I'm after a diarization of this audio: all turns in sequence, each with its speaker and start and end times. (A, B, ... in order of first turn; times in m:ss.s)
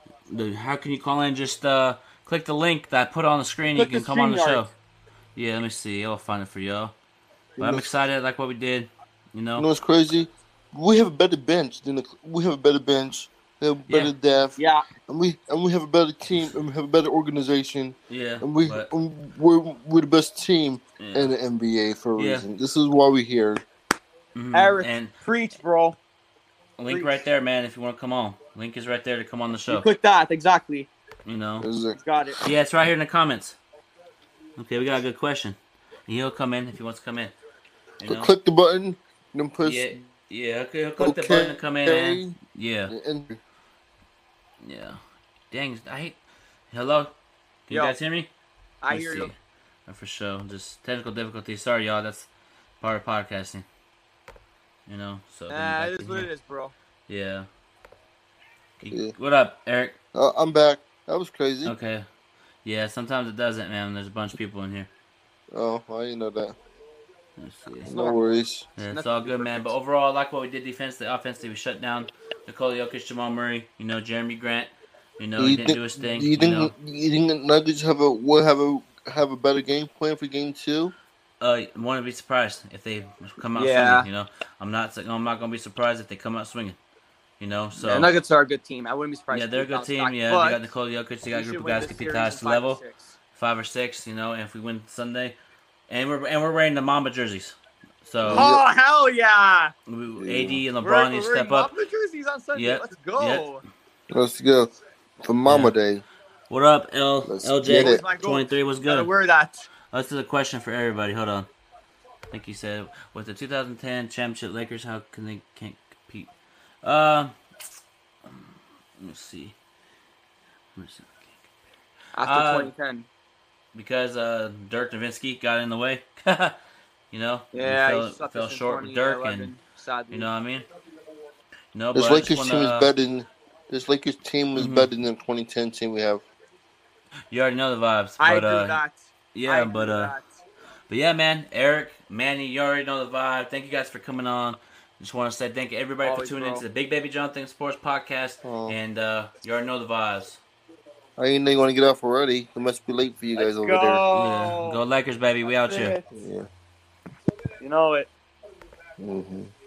0:00.3-0:04.7 A
0:03.7-0:04.6 B
0:05.3-0:06.9 A
0:07.6-0:07.9 C
0:07.6-0:09.7 A
0:09.6-0:23.6 C
0:14.6-0:14.9 B
0:18.1-0:18.9 A
0:21.0-0:21.4 A
0:22.2-0:22.5 A
0:24.3-0:25.1 A
0:24.5-0:26.0 B
0:26.8-0:29.9 A
0:26.8-0:27.2 B
0:29.6-0:30.9 B
0:31.2-0:31.7 A
0:31.6-0:32.0 C
0:31.9-0:32.4 B
0:32.4-0:33.6 A
0:34.6-0:37.4 A
0:38.0-0:38.3 A
0:38.0-0:40.0 C
0:39.6-0:42.9 A
0:41.0-0:43.4 C
0:44.6-0:45.0 A
0:45.5-0:46.2 A
0:46.7-0:47.1 A
0:47.7-0:48.3 A
0:47.7-0:48.0 B
0:48.8-0:49.3 B
0:48.9-0:49.4 A
0:49.9-0:52.3 A
0:52.8-0:53.6 A
0:54.9-0:56.3 A
0:55.5-0:56.7 B
0:57.1-0:57.5 A
0:58.8-1:00.0 A
0:58.9-0:59.1 C
1:00.1-1:01.7 C
1:01.6-1:02.0 A
1:02.6-1:04.9 A
1:05.5-1:06.6 C
1:07.4-1:08.0 A
1:07.8-1:08.7 C
1:08.0-1:08.2 B
1:08.8-1:16.7 A
1:08.8-1:09.7 B
1:15.4-1:20.9 C
1:21.4-1:26.8 A
1:23.5-1:24.1 B
1:27.4-1:28.2 A
1:27.8-1:30.7 B
1:29.3-1:32.8 A
1:31.3-1:33.1 B
1:33.3-1:35.4 A
1:35.9-1:38.5 A
1:38.2-1:38.6 C
1:38.3-1:39.7 B
1:39.9-1:41.7 A
1:40.2-1:40.6 C
1:40.8-1:43.6 B
1:42.5-1:43.5 A
1:44.1-1:44.7 C
1:45.2-1:46.0 C
1:45.5-1:45.7 A
1:46.5-1:49.1 A
1:47.2-1:48.0 C
1:47.9-1:49.6 B
1:49.9-1:51.5 A
1:52.3-1:56.3 A
1:56.8-1:57.3 A
1:59.0-1:59.6 A
2:00.7-2:01.4 A
2:02.1-2:03.1 B
2:02.2-2:02.7 A
2:03.7-2:06.6 A
2:07.1-2:09.5 A
2:07.5-2:10.3 B
2:10.1-2:10.7 A
2:11.7-2:12.9 A
2:11.9-2:16.2 C
2:14.5-2:14.9 A
2:17.3-2:18.8 A
2:18.2-2:20.3 B
2:19.3-2:20.2 A
2:20.9-2:30.4 A
2:26.0-2:26.6 B
2:28.4-2:28.8 C
2:31.2-2:34.0 C
2:33.4-2:34.8 B
2:34.1-2:36.0 A
2:35.4-2:36.0 B
2:36.1-2:36.5 C
2:37.6-2:38.1 B
2:39.0-2:39.5 C